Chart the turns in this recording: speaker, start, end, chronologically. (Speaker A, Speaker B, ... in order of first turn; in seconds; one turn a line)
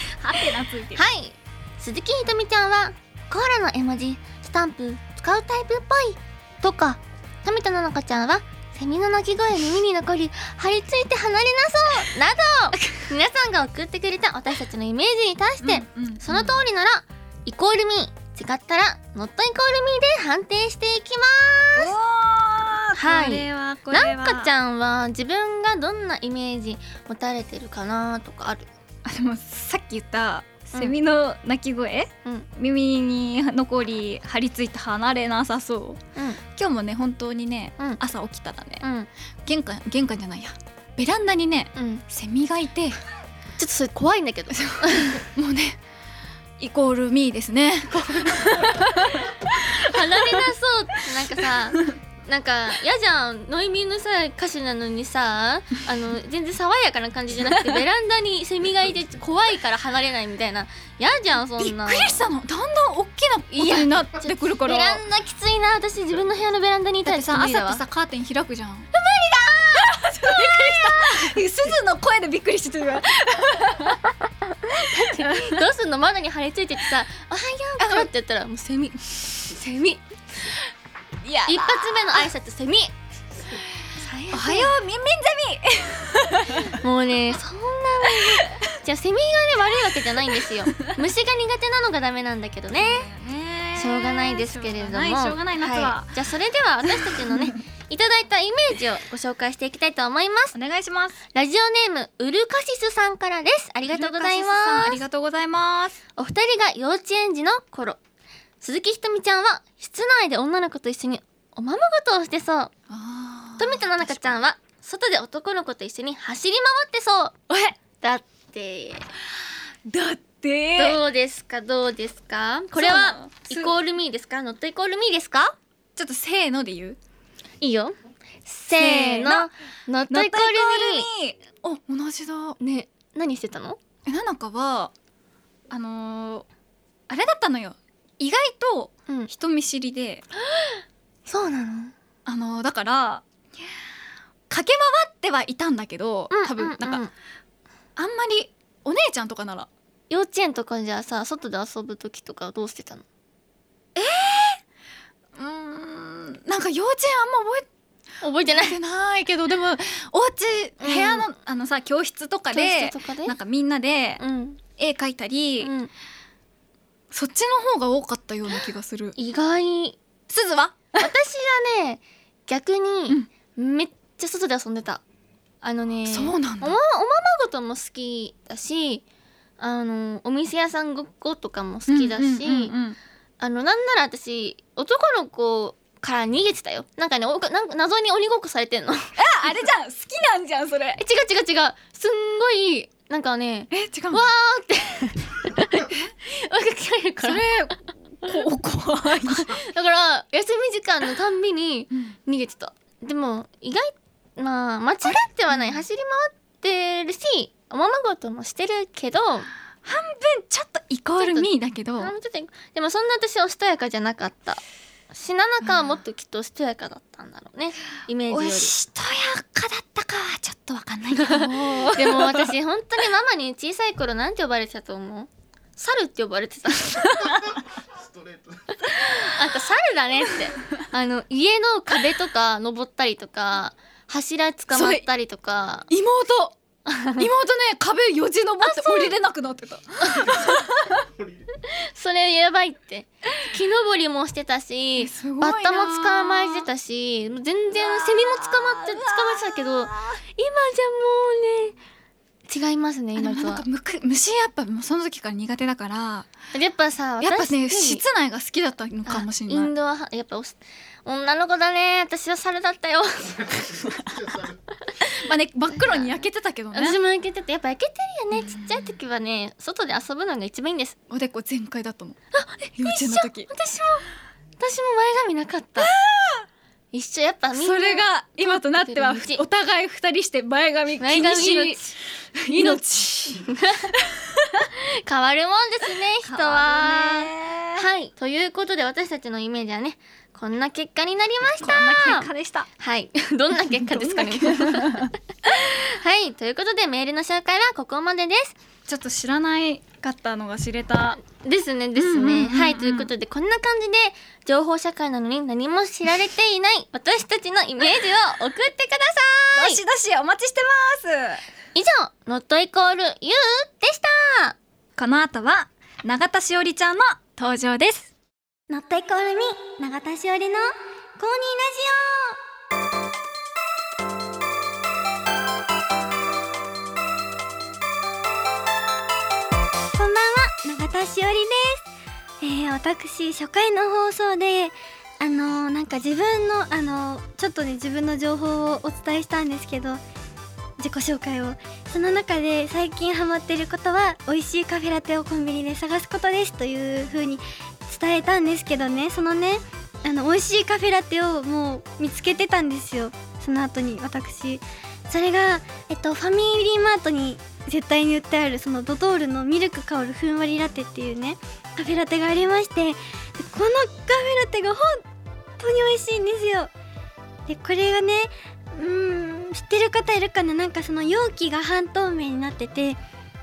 Speaker A: 0.1-1.1
Speaker B: 0.9-21.9
Speaker A: 15.6-16.6
Speaker A: 21.8-24.5
Speaker B: 23.0-28.7
Speaker A: 29.1-36.0
Speaker A: 36.6-38.8
Speaker B: 38.8-39.1
Speaker A: 39.5-43.0
Speaker B: 41.8-42.0
Speaker B: 43.6-45.2
Speaker A: 44.6-45.8
Speaker A: 46.6-50.4
Speaker B: 47.9-62.2
Speaker A: 61.6-65.0
Speaker B: 63.5-67.8
Speaker A: 67.1-68.9
Speaker B: 68.9-71.4
Speaker A: 69.8-74.2
Speaker B: 74.5-80.5
Speaker A: 74.8-75.6
Speaker A: 77.8-78.1
Speaker A: 81.2-82.3
Speaker B: 81.5-82.9
Speaker B: 84.0-84.7
Speaker A: 84.3-86.8
Speaker B: 86.7-93.1
Speaker A: 88.1-88.6
Speaker A: 90.4-90.9
Speaker A: 92.7-96.2
Speaker B: 93.8-100.6
Speaker A: 96.8-97.6
Speaker A: 100.5-101.2
Speaker B: 101.3-105.0
Speaker A: 103.9-106.0
Speaker B: 106.2-108.0
Speaker B: 108.6-112.7
Speaker A: 112.9-114.4
Speaker B: 113.6-119.0
Speaker A: 119.9-121.0
Speaker B: 120.8-125.5
Speaker A: 122.7-123.7
Speaker A: 126.0-127.0
Speaker B: 127.6-131.1
Speaker A: 128.7-129.5
Speaker A: 130.1-132.6
Speaker B: 132.6-133.8
Speaker A: 134.1-134.9
Speaker A: 135.7-136.5
Speaker A: 137.1-140.2
Speaker B: 140.4-141.9
Speaker A: 142.3-143.2
Speaker A: 144.5-147.0
Speaker B: 146.3-147.1
Speaker A: 148.0-149.7
Speaker B: 150.1-153.0
Speaker A: 154.0-154.6
Speaker A: 155.4-157.7
Speaker B: 158.2-158.8
Speaker A: 158.5-164.2
Speaker B: 160.8-161.3
Speaker B: 162.5-163.3
Speaker B: 164.2-164.6
Speaker A: 164.8-165.7
Speaker B: 165.6-165.9
Speaker A: 167.1-169.2
Speaker B: 169.2-170.0
Speaker A: 170.3-171.0
Speaker B: 171.0-175.0
Speaker B: 175.6-179.0
Speaker A: 176.1-176.8
Speaker B: 179.6-182.7
Speaker A: 181.9-183.0
Speaker B: 183.4-189.1
Speaker A: 189.2-191.0
Speaker B: 191.0-197.5
Speaker A: 193.7-194.2
Speaker A: 197.2-199.5
Speaker B: 199.2-209.5
Speaker A: 205.0-205.8
Speaker A: 209.8-212.1
Speaker B: 211.2-214.6
Speaker B: 215.1-218.7
Speaker A: 218.3-222.6
Speaker B: 221.1-227.2
Speaker A: 227.0-227.4
Speaker B: 228.9-235.9
Speaker A: 234.7-235.1
Speaker A: 235.9-236.6
Speaker B: 236.9-237.3
Speaker A: 237.2-241.1
Speaker B: 238.6-239.2
Speaker B: 240.0-240.5
Speaker B: 241.6-251.8
Speaker A: 245.0-246.7
Speaker A: 247.7-250.2
Speaker B: 252.5-253.6
Speaker A: 253.2-256.3
Speaker B: 256.5-258.0
Speaker A: 257.2-259.7
Speaker B: 259.1-264.0
Speaker A: 265.0-267.0
Speaker B: 265.7-266.2
Speaker B: 266.7-271.0
Speaker A: 268.4-268.8
Speaker A: 271.1-272.2
Speaker B: 272.3-274.1
Speaker A: 272.8-273.5
Speaker B: 274.6-275.9
Speaker A: 275.8-276.4
Speaker B: 276.9-279.4
Speaker A: 277.6-284.7
Speaker B: 281.0-281.8
Speaker B: 282.5-282.8
Speaker B: 283.4-283.9
Speaker B: 285.1-298.6
Speaker A: 286.2-287.9
Speaker A: 291.6-292.7
Speaker A: 293.7-295.1
Speaker A: 298.9-301.2
Speaker B: 301.2-309.8
Speaker A: 302.0-303.1
Speaker A: 309.6-311.4
Speaker B: 311.8-314.6
Speaker A: 315.0-318.1
Speaker C: 318.7-322.4
Speaker C: 329.9-331.9
Speaker C: 332.4-340.0
Speaker C: 340.8-365.1
Speaker C: 365.6-366.7
Speaker C: 367.5-373.0